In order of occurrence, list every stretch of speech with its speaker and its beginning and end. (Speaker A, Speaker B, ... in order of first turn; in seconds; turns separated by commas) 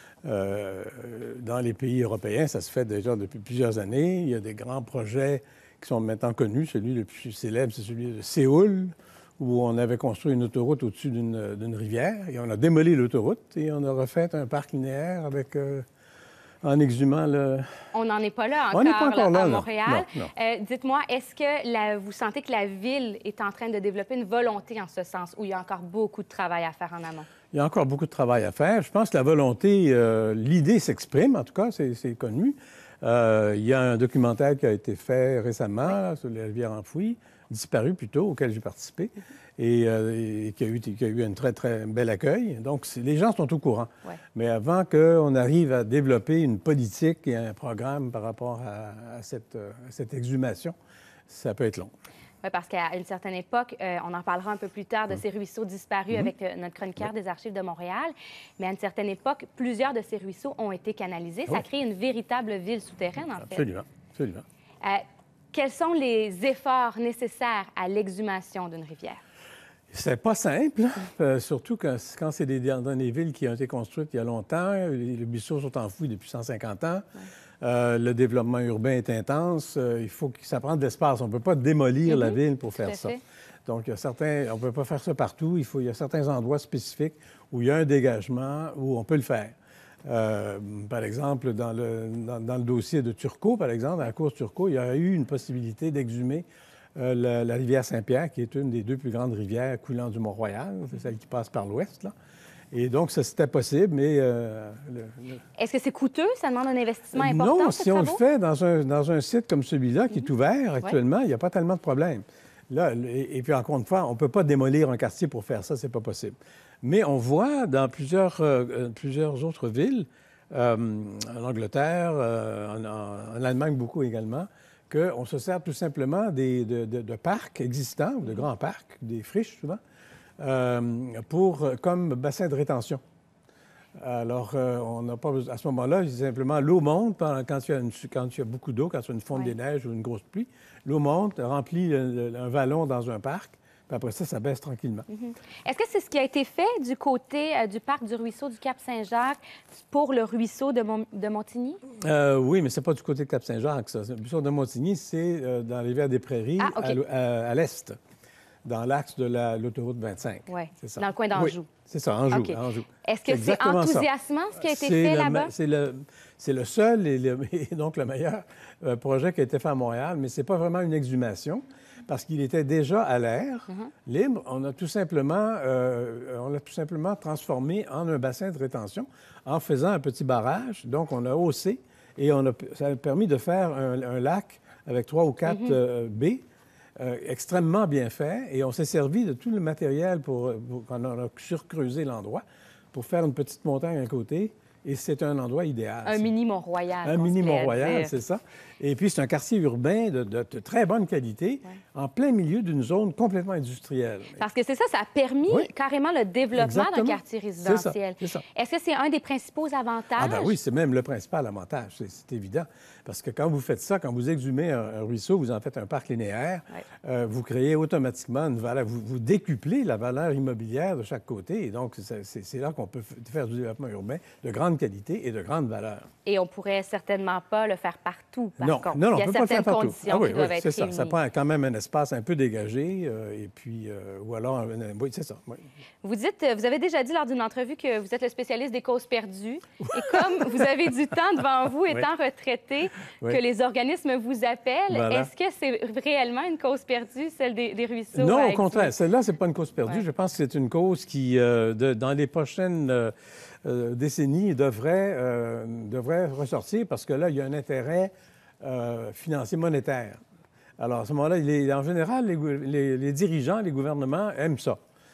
Speaker A: 0.2-15.8, Speaker A: 16.6-17.7, Speaker B: 17.9-27.3, Speaker A: 18.7-20.3, Speaker A: 27.5-50.7, Speaker A: 51.3-51.9, Speaker B: 52.4-63.6, Speaker A: 63.4-64.4, Speaker B: 64.8-69.2, Speaker A: 69.9-77.0, Speaker A: 77.6-89.5, Speaker B: 82.1-83.2, Speaker A: 90.0-96.4, Speaker A: 97.0-102.1, Speaker A: 102.7-105.3, Speaker B: 105.6-108.2, Speaker A: 107.1-129.8, Speaker A: 130.4-133.0, Speaker A: 134.0-145.1, Speaker B: 145.1-151.8, Speaker A: 152.0-157.9, Speaker B: 156.6-157.0, Speaker A: 158.6-186.4, Speaker B: 160.5-161.7, Speaker B: 162.3-165.5, Speaker B: 185.4-185.8, Speaker A: 187.0-196.3, Speaker B: 196.0-198.1, Speaker A: 197.0-204.4, Speaker B: 204.4-210.5, Speaker A: 206.5-208.4, Speaker A: 210.2-226.1, Speaker B: 226.2-231.1, Speaker A: 228.6-235.6, Speaker B: 236.0-248.9, Speaker A: 239.8-240.6, Speaker A: 244.9-245.3, Speaker A: 248.1-253.1, Speaker A: 253.6-260.2, Speaker A: 260.8-264.8